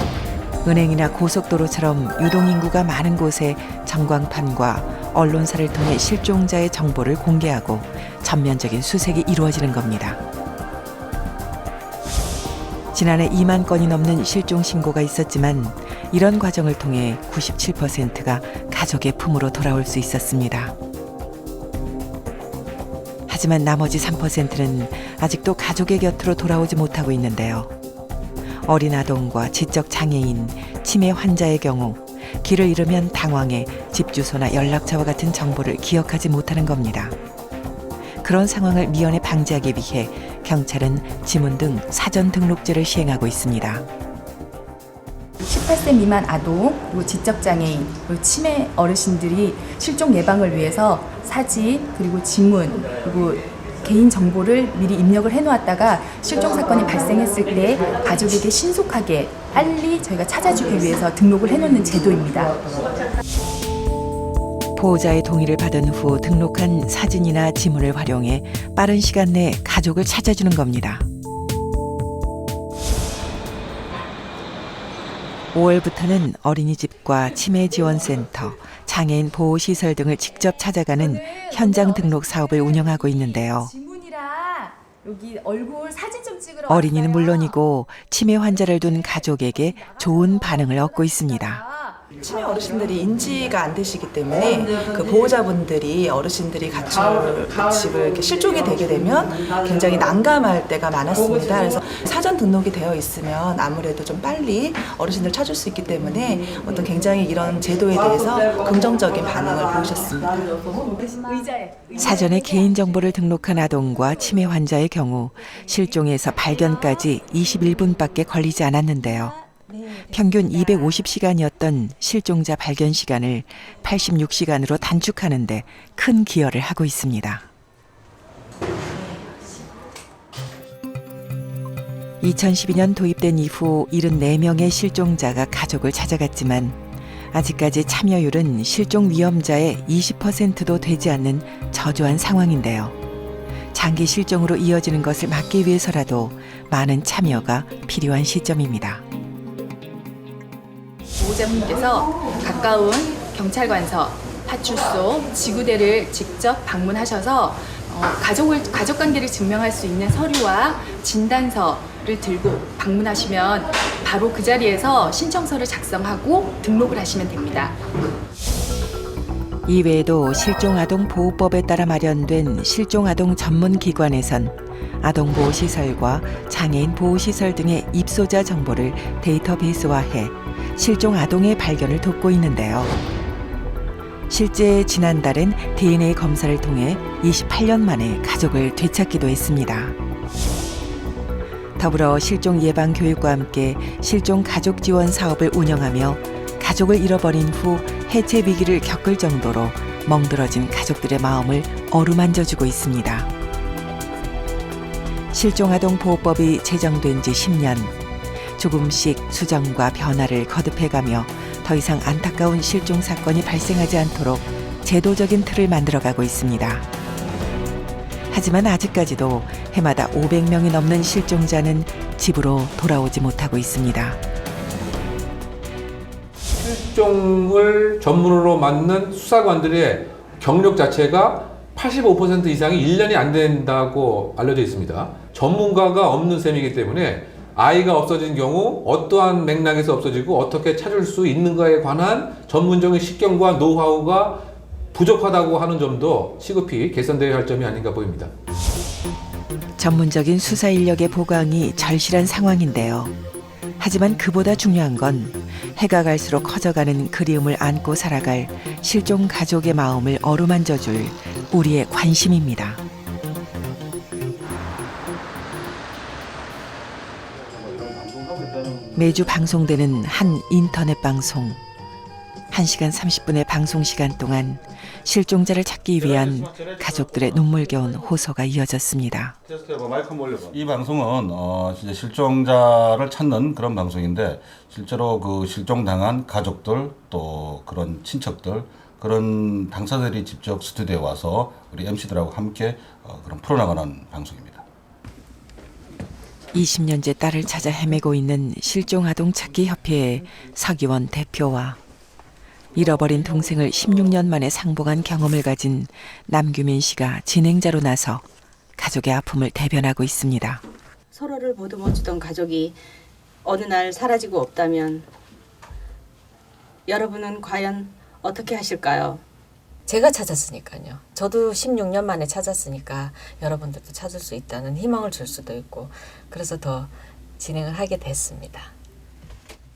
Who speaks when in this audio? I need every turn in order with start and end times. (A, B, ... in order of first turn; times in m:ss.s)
0:00.6-0:10.2 A
0:12.9-0:20.8 A
0:23.3-0:27.7 A
0:28.6-0:37.2 A
0:38.2-0:43.8 A
0:45.4-1:02.6 B
1:04.8-1:11.1 A
1:15.5-1:23.7 A
1:21.0-1:22.3 B
1:22.9-1:27.5 B
1:26.7-1:31.6 A
1:32.2-1:50.6 C
1:50.8-1:52.4 B
1:52.0-2:07.5 A
2:12.2-2:23.0 A
2:23.7-2:29.0 A
2:31.2-2:47.8 B
2:49.7-3:03.0 A
3:04.3-3:10.0 A
3:11.8-3:23.3 A
3:25.3-3:28.0 A
3:28.6-3:36.9 A
3:38.3-3:44.2 A
3:46.6-4:08.3 D
4:09.8-4:13.2 A
4:13.8-4:22.8 A
4:27.5-4:29.0 E
4:29.0-4:31.6 A
4:32.5-4:39.4 A
4:36.0-4:38.0 E
4:39.5-4:54.6 E
4:56.5-5:01.8 A
5:02.7-5:08.2 A
5:08.8-5:10.6 A
5:11.1-5:12.7 F
5:13.4-5:15.0 F
5:16.9-5:19.2 F
5:19.9-5:28.7 G